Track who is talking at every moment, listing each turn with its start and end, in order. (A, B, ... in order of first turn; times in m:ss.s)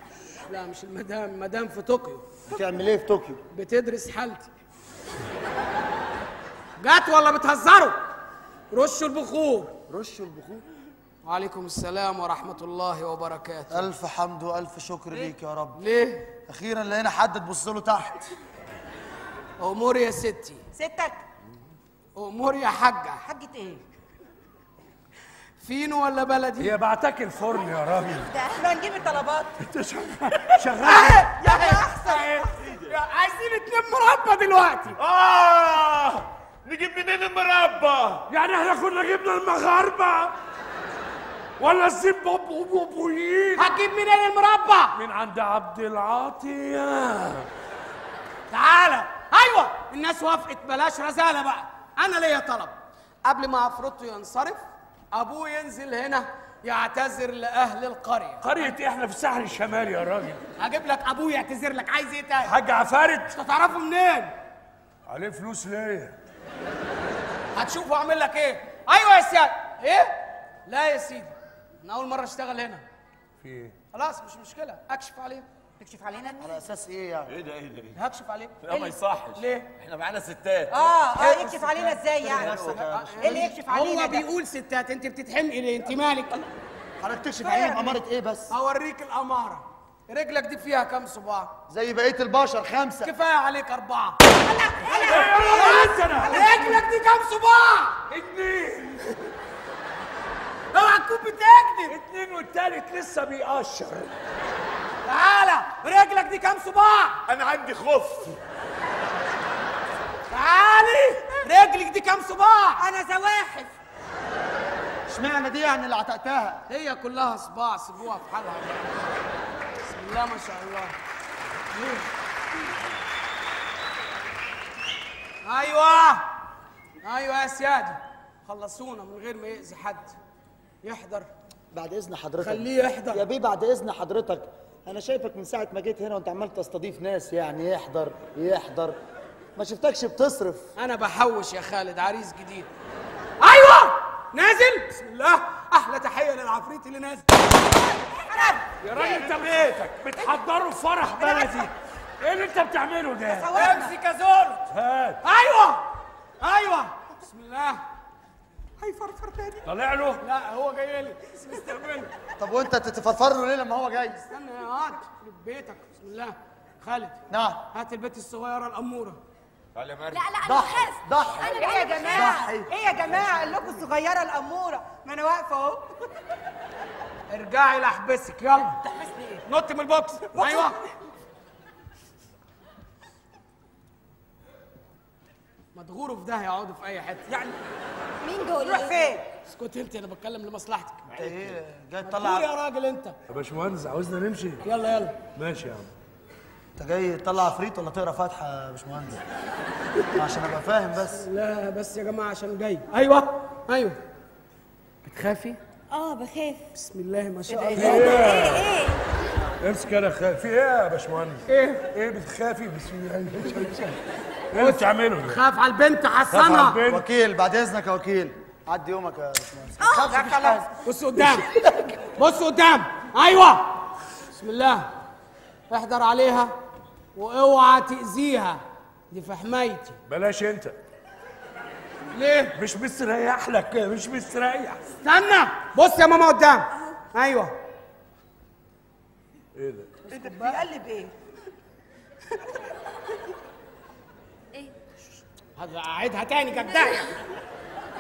0:00.5-0:02.4 A
0:02.5-0:03.4 B
0:03.5-0:04.5 A
0:06.8-0:08.0 A
0:08.7-0:09.8 A
0:09.9-0:10.6 B
0:11.2-0:13.9 A
0:13.7-0:15.8 B
0:15.8-0:16.3 A
0:16.5-0:18.3 B
0:19.6-0:20.6 A
0:20.7-0:21.2 C
0:22.2-0:23.2 A
0:23.2-0:23.8 C
0:25.6-0:26.8 A
0:26.6-0:28.3 D
0:28.3-0:28.6 E
0:28.5-0:29.6 C
0:29.6-0:31.3 D
0:30.8-0:35.0 A
0:31.2-0:32.4 C
0:32.5-0:33.0 F
0:35.0-0:38.3 F
0:38.3-0:40.3 D
0:41.6-0:43.7 D
0:43.6-0:45.0 A
0:45.0-0:47.5 D
0:48.5-0:58.7 A
0:58.4-1:00.4 D
1:00.6-1:02.6 A
1:02.4-1:03.3 D
1:03.3-1:04.3 A
1:05.1-1:06.2 D
1:07.6-1:12.8 A
1:13.4-1:13.7 D
1:13.9-1:15.5 A
1:15.8-1:16.5 C
1:16.4-1:17.3 B
1:17.3-1:18.0 F
1:18.0-1:19.7 A
1:18.6-1:21.0 F
1:20.7-1:24.3 C
1:21.2-1:23.6 B
1:22.3-1:22.8 F
1:22.7-1:26.4 A
1:27.0-1:28.5 B
1:27.4-1:27.9 C
1:28.5-1:31.5 A
1:31.7-1:33.1 B
1:33.0-1:34.2 A
1:34.3-1:36.5 C
1:34.9-1:38.0 A
1:35.0-1:36.8 D
1:38.1-1:39.2 D
1:40.7-1:42.0 A
1:41.9-1:44.1 D
1:45.0-1:47.2 A
1:47.3-1:48.4 F
1:50.3-1:52.8 A
1:52.8-1:53.7 C
1:55.1-1:56.6 B
1:56.7-1:59.0 A
1:59.8-2:01.0 A
2:01.7-2:02.1 A
2:05.4-2:06.2 A
2:07.0-2:10.2 A
2:10.8-2:11.3 A
2:11.7-2:19.0 B
2:12.4-2:13.2 A
2:19.6-2:20.7 B
2:20.8-2:22.7 A
2:23.4-2:27.6 A
2:28.1-2:29.2 C
2:28.8-2:33.6 D
2:29.0-2:29.7 F
2:33.3-2:33.9 C
2:33.5-2:34.7 A
2:34.7-2:35.2 D
2:35.2-2:35.8 A
2:36.4-2:37.8 A
2:38.8-2:39.6 C
2:39.6-2:40.2 D
2:40.2-2:42.1 A
2:42.4-2:44.2 B
2:44.2-2:49.2 A
2:47.3-2:47.6 B
2:49.8-2:50.4 F
2:50.1-2:52.4 E
2:50.4-2:52.7 B
2:51.5-2:55.9 C
2:57.3-2:58.8 A
2:58.6-2:59.4 C
2:59.5-3:00.8 A
3:05.8-3:07.4 A
3:07.3-3:07.6 C
3:08.2-3:09.2 E
3:08.6-3:09.3 C
3:09.5-3:11.1 A
3:11.1-3:11.6 F
3:11.2-3:12.5 B
3:12.0-3:13.2 A
3:13.3-3:14.6 D
3:14.6-3:15.2 A
3:15.4-3:15.9 D
3:16.8-3:19.2 B
3:20.1-3:21.2 B
3:21.2-3:24.0 A
3:25.0-3:25.6 A
3:25.9-3:26.6 E
3:26.8-3:28.3 A
3:27.5-3:27.9 C
3:27.7-3:28.7 D
3:27.8-3:29.0 E
3:29.6-3:35.4 D
3:31.5-3:31.9 A
3:34.5-3:36.8 A
3:36.3-3:37.0 D
3:36.8-3:40.7 B
3:39.8-3:40.2 E
3:40.0-3:40.7 C
3:40.8-3:41.5 A
3:41.5-3:42.0 B
3:42.2-3:43.7 A
3:44.3-3:44.9 A
3:45.7-3:46.5 A
3:47.2-3:50.0 A
3:50.1-3:50.8 D
3:52.1-3:52.6 A
3:52.6-3:54.8 D
3:55.0-3:57.5 A
3:59.6-3:59.9 D
4:00.1-4:01.1 C
4:00.1-4:00.6 A
4:05.6-4:07.1 A